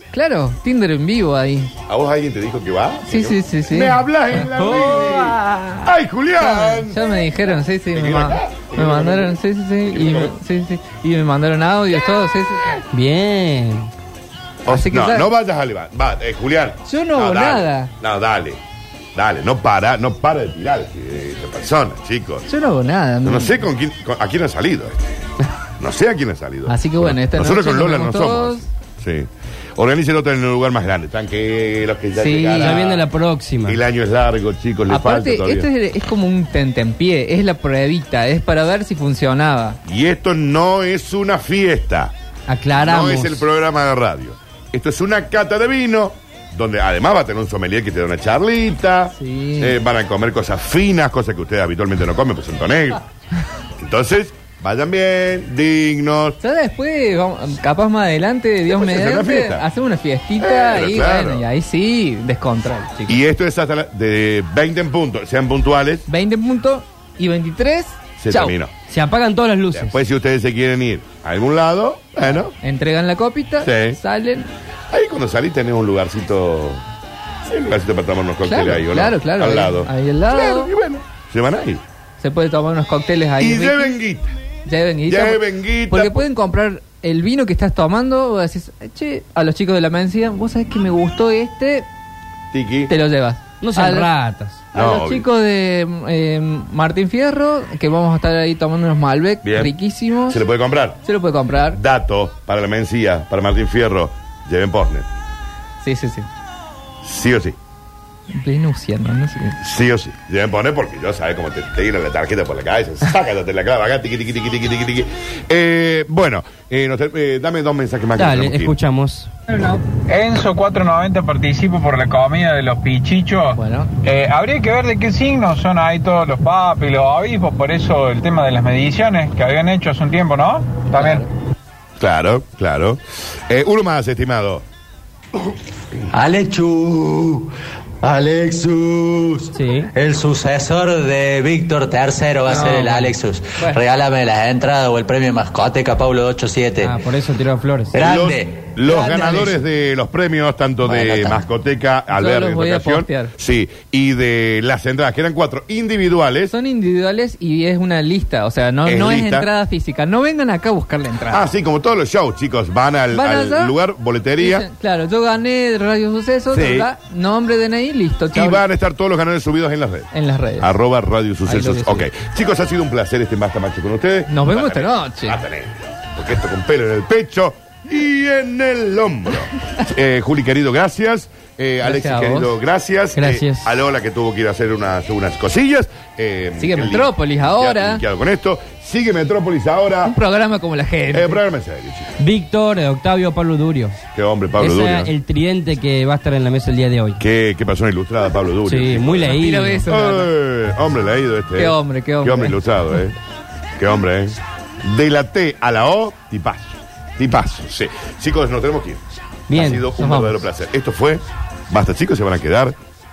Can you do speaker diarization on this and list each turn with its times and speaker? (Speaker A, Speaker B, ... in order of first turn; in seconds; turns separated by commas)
Speaker A: 0.1-1.7, Speaker B: 1.9-7.0, Speaker A: 3.0-12.7, Speaker B: 7.9-10.3, Speaker C: 12.9-13.9, Speaker B: 14.6-18.6, Speaker A: 14.7-15.3, Speaker A: 16.9-17.9, Speaker B: 19.1-22.4, Speaker A: 22.5-23.6, Speaker B: 23.2-33.0, Speaker A: 26.7-28.7, Speaker A: 32.2-32.8, Speaker C: 32.6-33.8, Speaker B: 33.6-35.7, Speaker A: 34.9-39.8, Speaker B: 39.8-42.1, Speaker C: 42.5-43.4, Speaker B: 42.8-53.1, Speaker A: 49.2-49.8, Speaker B: 53.8-56.4, Speaker A: 56.4-63.2, Speaker B: 58.7-59.7, Speaker B: 60.4-61.4, Speaker B: 63.1-66.0, Speaker A: 66.1-68.5, Speaker B: 68.2-68.7, Speaker C: 68.9-70.0, Speaker B: 69.7-72.5, Speaker A: 72.3-74.5, Speaker B: 73.6-74.0, Speaker B: 74.9-76.8, Speaker B: 77.4-81.8, Speaker A: 78.5-80.7, Speaker A: 82.2-84.0, Speaker B: 83.4-84.3, Speaker A: 84.7-91.9, Speaker B: 85.0-86.3, Speaker B: 92.5-92.9, Speaker A: 92.9-94.1, Speaker C: 93.6-94.6, Speaker B: 94.7-95.2, Speaker A: 94.7-100.4, Speaker B: 99.4-99.7, Speaker B: 100.3-101.0, Speaker A: 101.0-101.8, Speaker B: 101.7-105.1, Speaker A: 105.8-106.3, Speaker B: 107.0-107.6, Speaker A: 108.3-109.6, Speaker B: 109.6-118.8, Speaker C: 118.2-119.3, Speaker A: 119.5-119.8, Speaker D: 120.1-131.3, Speaker A: 123.5-123.9, Speaker B: 132.0-134.6, Speaker E: 136.1-137.5, Speaker E: 138.0-147.0, Speaker C: 139.5-139.9, Speaker A: 142.5-143.1, Speaker C: 142.6-142.9, Speaker C: 146.8-147.9, Speaker E: 147.9-148.6, Speaker B: 148.0-156.5, Speaker A: 148.8-149.6, Speaker E: 150.8-151.4, Speaker A: 152.1-153.3, Speaker A: 156.5-161.4, Speaker B: 158.8-159.5, Speaker B: 161.3-164.7, Speaker A: 163.1-163.7, Speaker A: 164.4-168.6, Speaker B: 166.5-166.9, Speaker B: 168.3-190.2, Speaker A: 170.1-170.7, Speaker A: 171.4-172.1, Speaker A: 174.3-175.4, Speaker A: 181.8-182.6, Speaker C: 183.2-183.7, Speaker A: 186.6-188.0, Speaker A: 190.0-191.4, Speaker B: 191.1-192.2, Speaker C: 192.2-193.9, Speaker B: 194.1-195.1, Speaker C: 194.6-197.2, Speaker B: 197.2-203.2, Speaker C: 198.7-199.8, Speaker A: 199.2-200.3, Speaker A: 201.6-202.6, Speaker B: 203.8-212.8, Speaker C: 209.5-209.8, Speaker A: 209.9-210.4